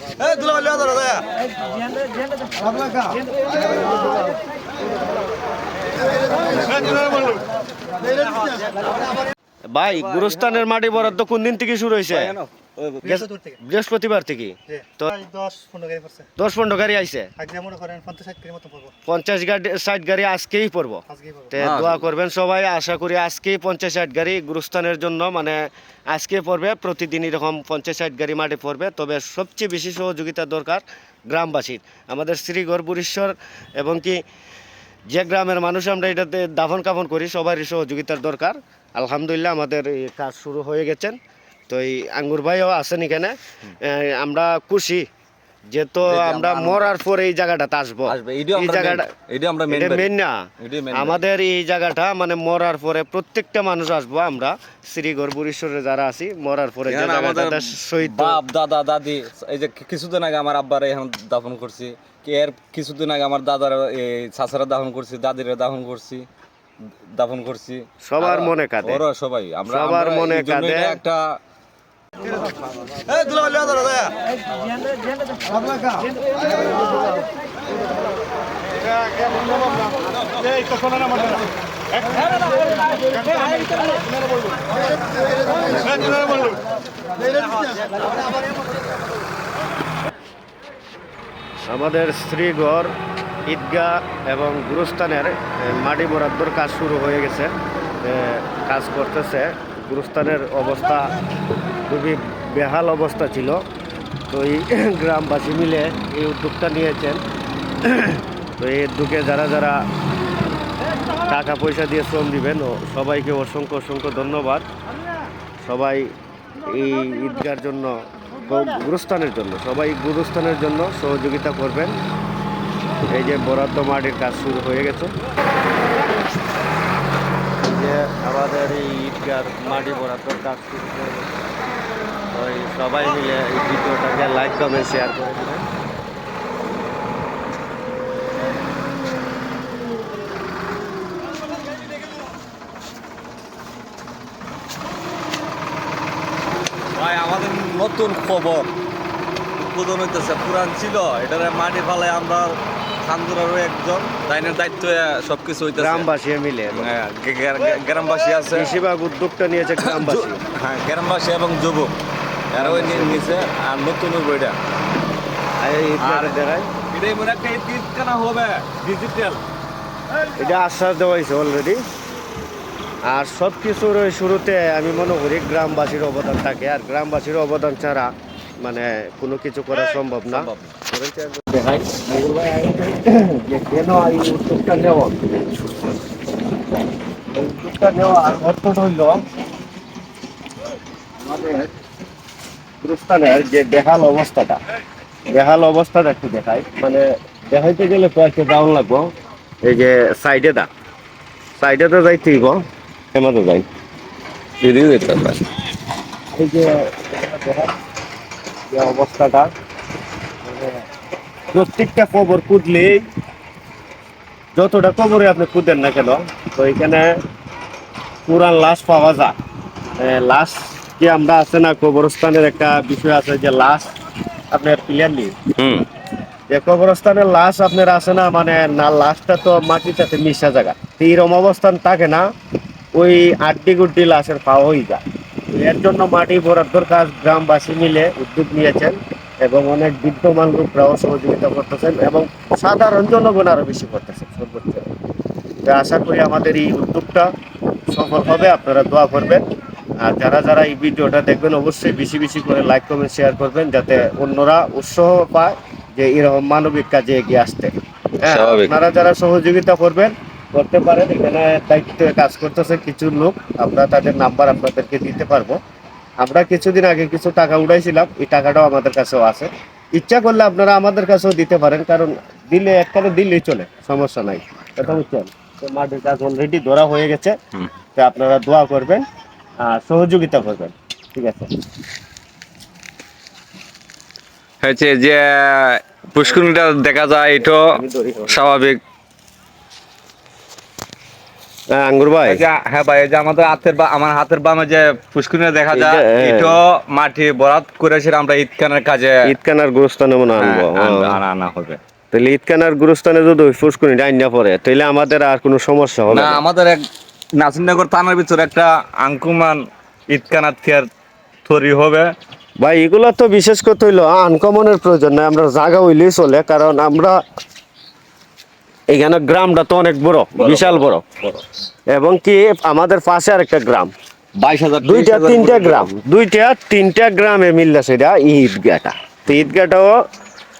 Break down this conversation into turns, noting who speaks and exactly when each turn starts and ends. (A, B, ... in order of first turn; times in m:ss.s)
0:00.2-0:01.3 A
0:09.7-0:12.4 B
0:12.1-0:13.2 A
0:13.0-0:15.3 B
0:15.2-0:16.3 C
0:16.4-0:17.3 B
0:17.4-0:18.9 C
0:19.0-0:34.2 B
0:21.6-0:22.1 A
0:35.1-0:41.2 B
0:41.7-0:45.0 B
0:45.7-0:49.1 B
0:46.0-0:46.9 A
0:48.1-0:50.1 A
0:49.7-0:50.4 B
0:50.6-0:51.2 A
0:50.9-0:58.4 B
0:56.9-1:06.2 A
1:07.1-1:11.4 A
1:08.0-1:09.0 B
1:09.7-1:11.0 B
1:13.1-1:14.2 A
1:31.7-1:32.9 B
1:33.5-1:41.1 B
1:41.9-1:43.6 B
1:44.3-1:47.2 B
1:47.8-1:49.8 B
1:51.3-1:54.6 B
1:55.6-1:56.1 B
1:56.6-2:01.9 B
2:03.1-2:05.1 B
2:07.6-2:11.4 B
2:12.3-2:15.6 B
2:26.9-2:28.7 A
2:29.6-2:36.1 A
2:35.7-2:36.9 B
2:36.7-2:38.8 A
2:38.5-2:40.4 B
2:39.8-2:41.9 A
2:42.5-2:44.6 A
2:42.6-2:43.4 B
2:45.6-2:46.7 B
2:46.0-2:49.4 A
2:50.4-2:51.8 B
2:53.0-3:05.2 B
3:00.2-3:00.8 A
3:07.3-3:09.2 B
3:11.2-3:11.7 B
3:12.8-3:14.6 B
3:15.3-3:19.1 B
3:19.6-3:20.7 B
3:21.6-3:23.6 B
3:24.6-3:25.4 A
3:26.3-3:27.7 B
3:28.7-3:29.5 B
3:30.4-3:30.8 B
3:31.5-3:33.0 B
3:34.5-3:37.1 B
3:38.3-3:39.3 B
3:40.0-3:43.9 B
3:44.5-3:45.3 B
3:45.6-3:45.8 A
3:46.5-3:52.2 B
3:52.9-4:04.9 B
4:05.6-4:07.3 B
4:07.9-4:09.4 B
4:10.0-4:25.6 B
4:18.2-4:18.7 A
4:26.2-4:37.4 B
4:38.0-4:39.0 B
4:39.6-4:41.5 B
4:44.6-4:48.8 A
4:47.4-4:48.6 B
4:51.7-4:52.4 B
4:52.2-4:59.3 A
4:55.7-4:56.6 B
4:59.2-5:01.2 B
5:00.4-5:01.8 A
5:02.1-5:06.4 B
5:06.1-5:06.8 A
5:07.4-5:10.9 A
5:11.4-5:12.1 A
5:12.6-5:17.2 B
5:18.9-5:21.0 B
5:20.3-5:21.4 A
5:21.9-5:23.9 B
5:24.4-5:25.9 A
5:24.8-5:30.0 B